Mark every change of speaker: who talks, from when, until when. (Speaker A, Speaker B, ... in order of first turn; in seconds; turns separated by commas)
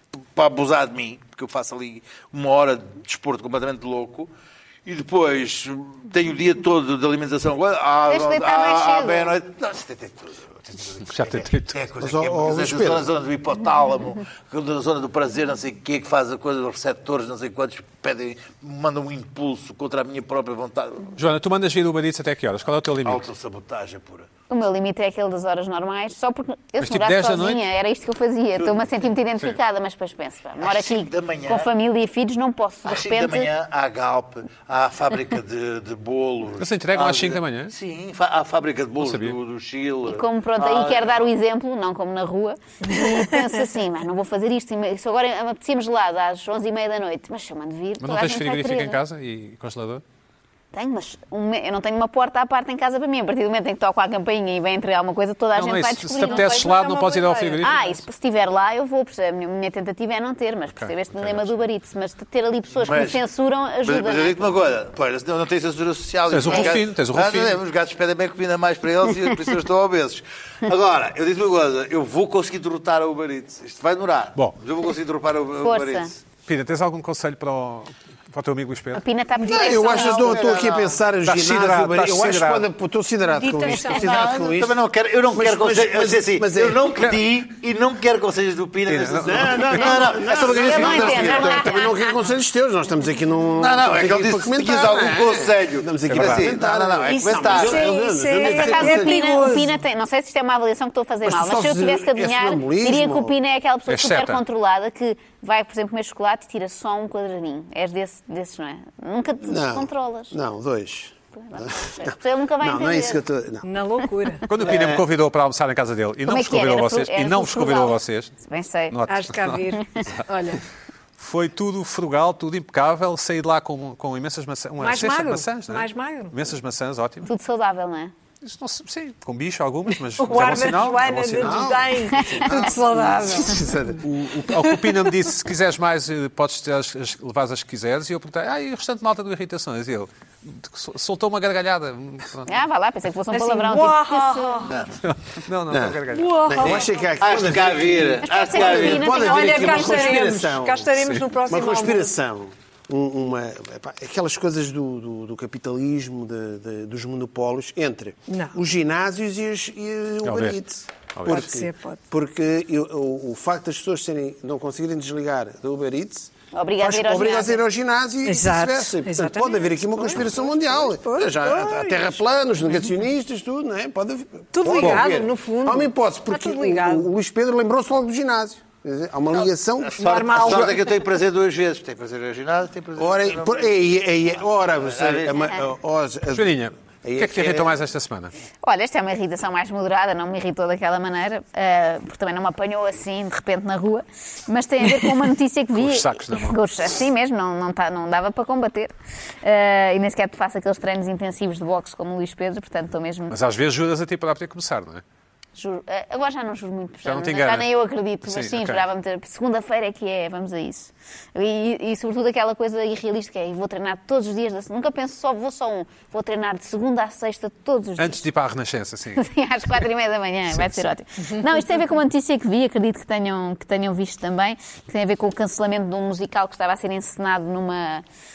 Speaker A: 0.3-4.3, Speaker A: 4.8-21.2, Speaker B: 8.1-9.4, Speaker C: 11.1-11.8, Speaker D: 12.0-13.1, Speaker C: 21.1-23.3, Speaker A: 23.0-24.3, Speaker B: 24.5-33.5, Speaker C: 26.8-27.6, Speaker A: 28.6-28.9, Speaker A: 30.6-31.7, Speaker A: 32.9-41.2, Speaker C: 36.6-37.7, Speaker C: 39.0-39.4, Speaker B: 40.0-49.0, Speaker E: 42.8-43.5, Speaker C: 48.0-50.0, Speaker B: 50.7-56.9, Speaker C: 55.5-57.8, Speaker E: 56.2-58.0, Speaker B: 57.6-64.5, Speaker C: 60.7-61.6, Speaker A: 62.8-63.2, Speaker A: 63.8-76.2, Speaker C: 66.3-67.5, Speaker B: 66.5-66.7, Speaker B: 75.6-76.1, Speaker C: 76.5-79.0, Speaker B: 78.9-80.4, Speaker D: 79.4-86.9, Speaker A: 79.5-81.0, Speaker C: 81.2-82.7, Speaker E: 83.3-84.3, Speaker A: 83.9-91.8, Speaker C: 88.9-90.1, Speaker D: 89.2-99.7, Speaker B: 90.3-92.1, Speaker A: 93.6-97.9, Speaker C: 96.1-96.5, Speaker E: 97.1-99.7, Speaker B: 98.4-110.3, Speaker D: 101.2-103.3, Speaker C: 103.9-104.4, Speaker D: 109.4-113.7, Speaker B: 111.4-113.2, Speaker E: 113.6-114.5, Speaker C: 114.5-118.3, Speaker D: 114.6-115.0, Speaker B: 116.2-119.0, Speaker C: 118.9-120.2, Speaker E: 119.1-120.6, Speaker C: 121.2-127.3, Speaker E: 124.8-126.4, Speaker B: 127.2-128.1, Speaker C: 128.4-131.8, Speaker E: 130.2-133.7, Speaker D: 131.4-134.1, Speaker B: 132.2-132.5, Speaker C: 134.0-142.6, Speaker E: 134.7-135.0, Speaker B: 142.5-144.7, Speaker E: 143.3-144.8, Speaker A: 144.7-145.0, Speaker C: 145.0-146.7, Speaker D: 145.7-180.6, Speaker E: 146.1-146.9, Speaker A: 147.2-149.8, Speaker B: 148.2-150.1, Speaker E: 149.1-152.1, Speaker E: 158.3-158.6, Speaker C: 160.2-160.6, Speaker C: 161.1-161.5, Speaker E: 161.2-162.0, Speaker B: 166.5-167.6, Speaker E: 168.2-172.1, Speaker E: 174.5-177.1, Speaker A: 174.6-175.3, Speaker C: 174.8-175.0, Speaker A: 179.8-183.7, Speaker E: 180.0-180.9, Speaker D: 183.0-187.8, Speaker A: 184.8-185.4, Speaker C: 186.3-188.3, Speaker B: 188.6-203.4, Speaker C: 195.8-196.6, Speaker C: 203.3-205.0, Speaker B: 205.6-218.2, Speaker C: 207.1-207.7, Speaker C: 208.2-208.8, Speaker C: 218.0-219.3, Speaker B: 219.2-228.0, Speaker C: 220.5-220.9